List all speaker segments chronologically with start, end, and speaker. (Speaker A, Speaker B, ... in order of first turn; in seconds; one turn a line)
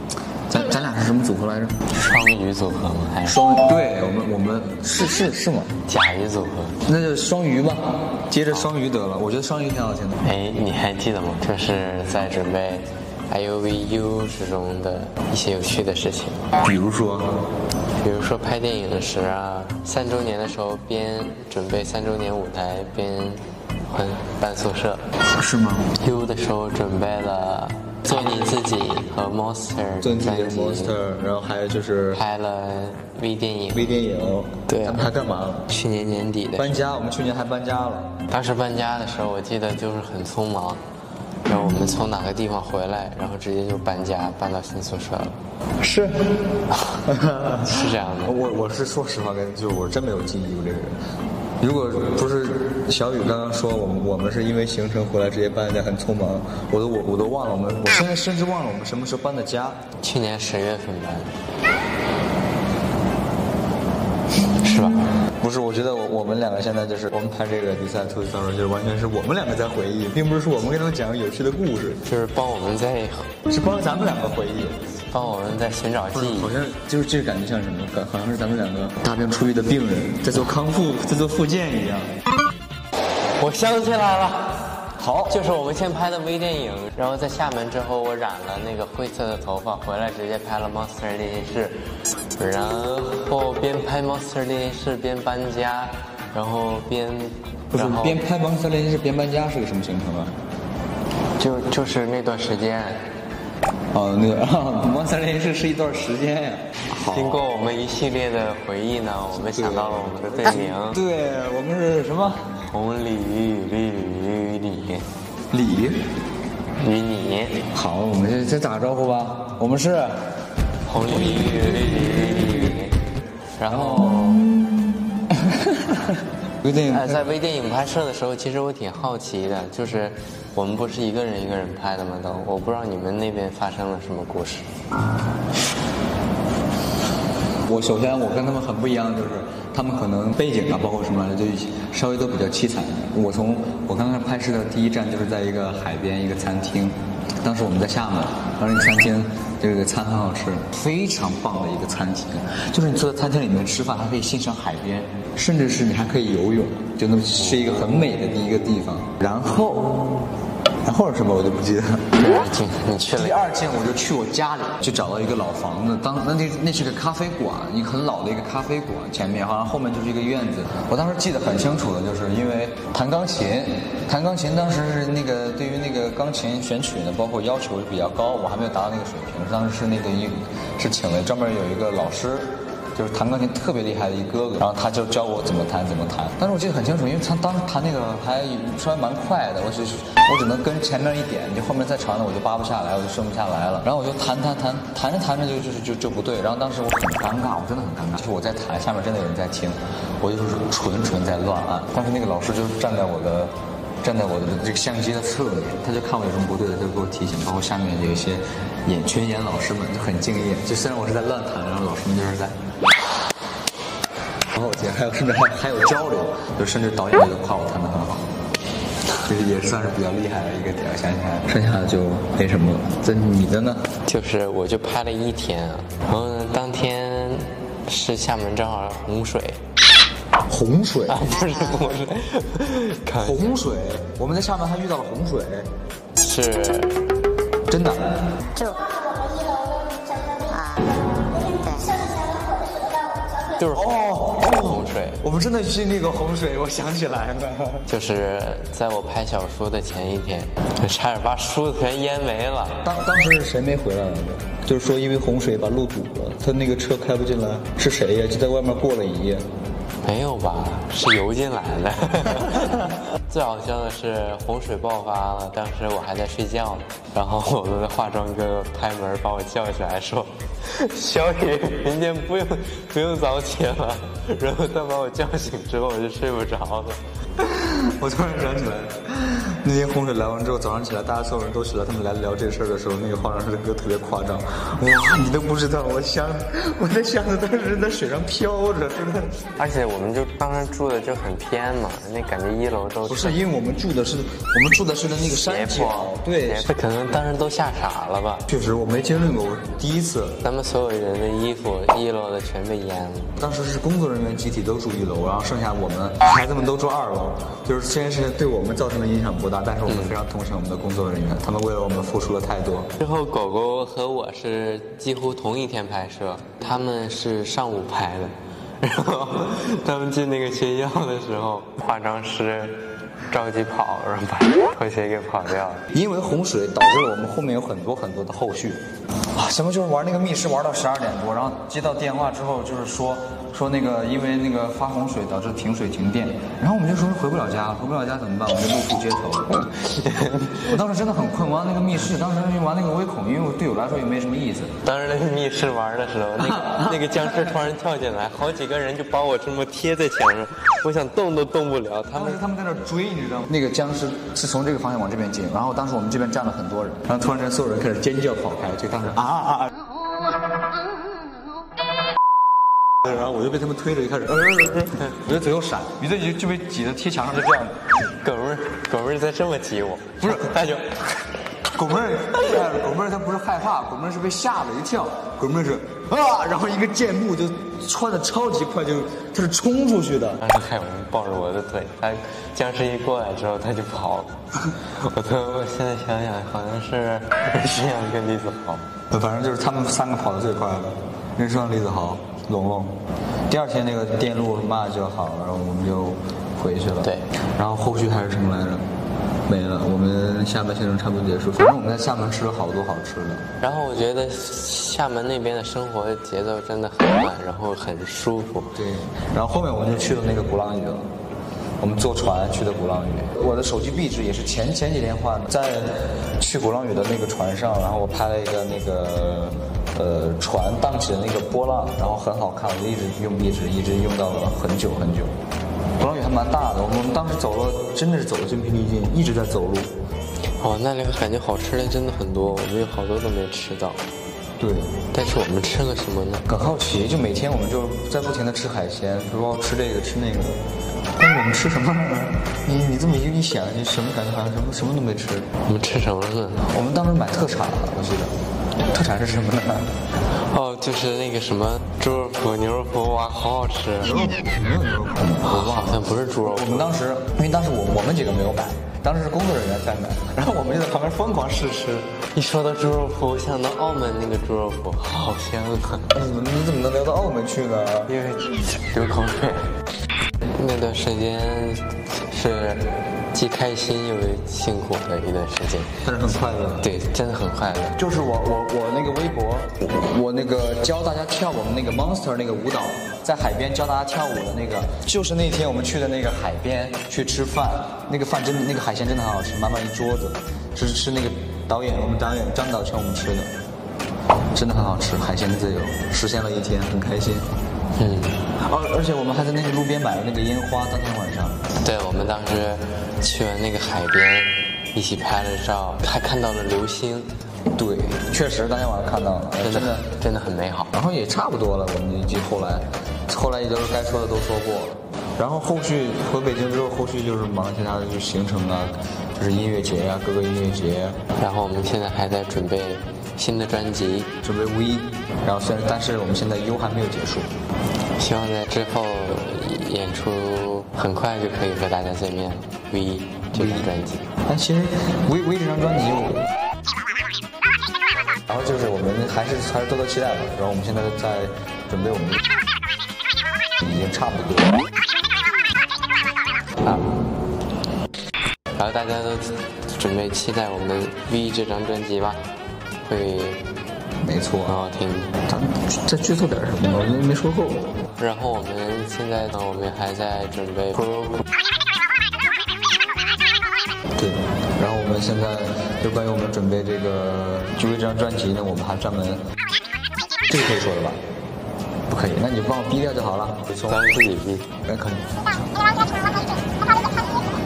Speaker A: 0.5-1.8
Speaker B: 1.9-3.4
Speaker A: 3.2-5.7
Speaker B: 5.9-6.8
Speaker A: 6.8-10.2
Speaker B: 10.2-16.5
Speaker A: 16.6-17.4
Speaker B: 18.0-25.0
Speaker A: 25.4-25.9
Speaker B: 25.9-31.0
Speaker A: 30.0-32.2
Speaker B: 32.1-33.9
Speaker A: 33.7-35.7
Speaker B: 34.7-35.0
Speaker B: 35.7-36.8
Speaker A: 36.6-38.2
Speaker B: 38.3-40.8
Speaker B: 41.5-45.4
Speaker A: 45.8-51.0
Speaker B: 47.6-48.4
Speaker A: 51.6-59.8
Speaker B: 60.0-61.3
Speaker B: 64.6-65.1
Speaker A: 65.4-72.0
Speaker B: 72.1-73.3
Speaker A: 73.5-74.8
Speaker B: 75.1-76.6
Speaker A: 76.1-82.2
Speaker B: 83.3-91.8
Speaker A: 85.0-85.5
Speaker B: 92.4-98.2
Speaker A: 97.7-100.3
Speaker B: 101.4-103.0
Speaker A: 103.9-107.5
Speaker B: 106.9-111.0
Speaker A: 109.3-112.6
Speaker B: 112.5-115.1
Speaker A: 115.5-116.1
Speaker B: 116.8-117.7
Speaker A: 117.7-120.3
Speaker B: 120.9-123.0
Speaker A: 121.1-122.7
Speaker B: 123.6-124.4
Speaker A: 123.7-127.3
Speaker B: 126.9-134.7
Speaker A: 137.6-160.0
Speaker A: 160.8-162.1
Speaker B: 162.2-163.4
Speaker A: 163.1-212.6
Speaker A: 214.5-218.3
Speaker A: 219.2-223.8
Speaker B: 224.1-229.6
Speaker A: 230.5-231.3
Speaker B: 231.1-233.6
Speaker A: 233.2-235.7
Speaker B: 236.2-237.0
Speaker A: 237.7-238.2
Speaker C: 238.6-243.6
Speaker B: 243.5-245.2
Speaker A: 243.7-247.9
Speaker B: 247.9-252.8
Speaker A: 252.8-259.4
Speaker B: 260.0-277.0
Speaker A: 277.4-289.5
Speaker B: 289.6-293.4
Speaker A: 293.1-296.7
Speaker B: 295.1-298.5
Speaker A: 298.5-300.4
Speaker B: 300.4-303.4
Speaker A: 303.4-312.9
Speaker B: 309.9-310.2
Speaker B: 313.0-325.8
Speaker A: 325.9-328.8
Speaker A: 329.3-339.6
Speaker B: 339.5-340.8
Speaker A: 340.7-344.7
Speaker B: 344.8-352.4
Speaker A: 346.4-347.6
Speaker A: 352.1-359.8
Speaker A: 363.0-367.8
Speaker B: 368.1-371.1
Speaker A: 370.2-370.6
Speaker A: 371.7-380.4
Speaker B: 380.4-388.9
Speaker A: 389.1-393.0
Speaker A: 393.5-398.9
Speaker A: 399.5-403.4
Speaker B: 403.6-408.8
Speaker A: 408.8-411.1
Speaker A: 411.8-425.3
Speaker A: 426.0-429.9
Speaker B: 430.6-434.0
Speaker A: 434.6-435.0
Speaker B: 435.1-436.5
Speaker A: 436.5-440.6
Speaker A: 441.2-445.5
Speaker B: 445.6-446.6
Speaker A: 446.7-448.4
Speaker A: 448.9-449.9
Speaker B: 450.3-454.4
Speaker A: 454.0-462.1
Speaker B: 455.4-456.9
Speaker B: 462.3-466.2
Speaker A: 466.1-468.1
Speaker B: 468.1-469.7
Speaker B: 470.6-476.0
Speaker A: 476.0-476.9
Speaker B: 476.8-478.0
Speaker A: 478.0-493.5
Speaker A: 494.5-497.5
Speaker B: 498.0-498.4
Speaker A: 498.6-501.6
Speaker B: 501.8-507.3
Speaker A: 507.7-510.1
Speaker B: 509.6-510.9
Speaker A: 510.9-521.2
Speaker B: 521.4-524.3
Speaker A: 524.4-527.5
Speaker B: 528.2-534.3
Speaker A: 533.5-533.9
Speaker A: 534.5-536.5
Speaker A: 538.5-542.4
Speaker A: 543.8-544.8
Speaker B: 548.8-552.4
Speaker B: 553.1-553.6
Speaker A: 554.2-554.8
Speaker B: 554.7-555.4
Speaker A: 555.5-557.9
Speaker B: 558.2-561.4
Speaker A: 564.2-569.4
Speaker A: 570.5-571.2
Speaker A: 572.1-574.1
Speaker B: 573.9-574.7
Speaker A: 574.9-575.4